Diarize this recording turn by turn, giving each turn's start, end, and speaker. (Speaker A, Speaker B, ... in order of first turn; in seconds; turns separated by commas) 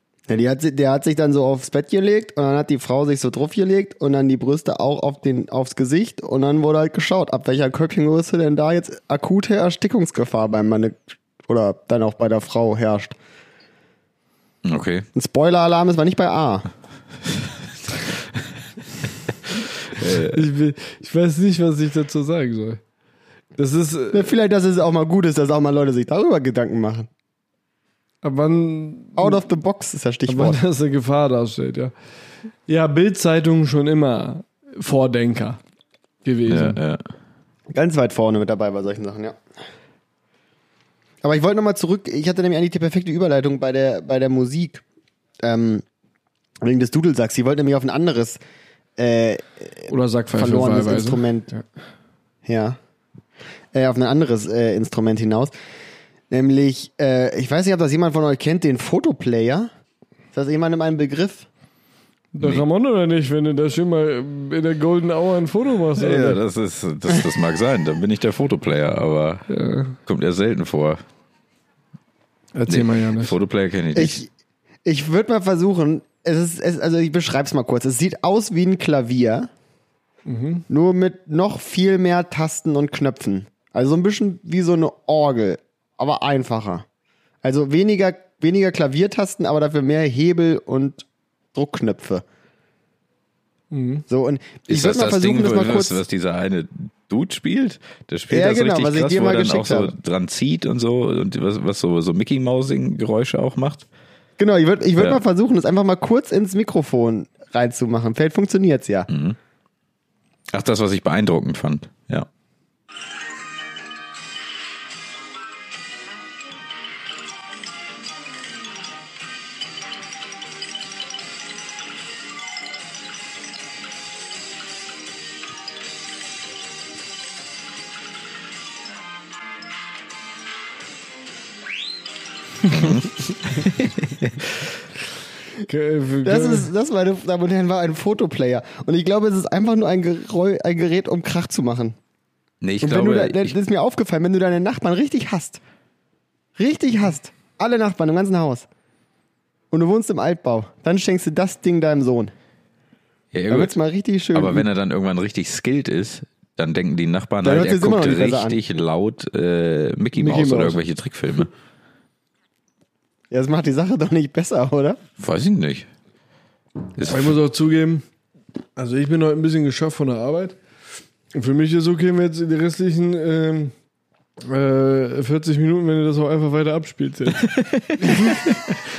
Speaker A: 0.3-13.2, Speaker B: 14.6-15.1, Speaker A: 15.2-16.7, Speaker B: 19.9-20.4, Speaker C: 20.1-22.8, Speaker C: 23.6-24.3, Speaker A: 24.1-27.1, Speaker C: 28.2-29.4, Speaker A: 29.2-30.6, Speaker C: 30.3-31.9, Speaker C: 32.7-35.6, Speaker C: 36.2-36.8, Speaker B: 36.5-37.0, Speaker A: 37.7-39.4, Speaker A: 41.2-44.8, Speaker A: 45.4-45.8, Speaker A: 46.6-48.4, Speaker A: 49.0-51.5, Speaker C: 49.9-51.6, Speaker A: 52.5-52.8, Speaker A: 53.7-55.5, Speaker A: 56.3-59.7, Speaker A: 60.3-61.5, Speaker C: 62.3-66.4, Speaker B: 62.4-62.6, Speaker B: 66.0-69.5, Speaker C: 69.5-70.0, Speaker B: 70.1-71.0, Speaker C: 72.5-73.3, Speaker B: 72.7-74.2, Speaker A: 74.0-74.3, Speaker A: 74.8-79.5, Speaker C: 80.3-80.7, Speaker A: 80.7-86.8, Speaker A: 87.4-92.2, Speaker C: 93.7-94.1, Speaker A: 94.1-96.0, Speaker B: 94.7-103.9, Speaker A: 98.3-99.9, Speaker A: 104.4-109.1, Speaker B: 109.1-109.4, Speaker B: 110.5-112.3, Speaker B: 132.7-134.7, Speaker C: 135.7-136.7, Speaker A: 136.2-142.0, Speaker B: 142.6-143.6, Speaker A: 142.8-145.6, Speaker A: 146.6-148.7, Speaker A: 149.7-152.3, Speaker B: 153.3-153.8, Speaker A: 153.5-154.7, Speaker B: 154.3-161.5, Speaker A: 157.4-158.6, Speaker C: 160.2-160.8, Speaker A: 163.3-165.0, Speaker B: 165.2-165.9, Speaker B: 166.9-167.3, Speaker C: 167.1-168.0, Speaker C: 168.8-170.6, Speaker C: 171.3-173.7, Speaker C: 174.4-177.5, Speaker B: 177.3-178.8, Speaker C: 178.1-178.5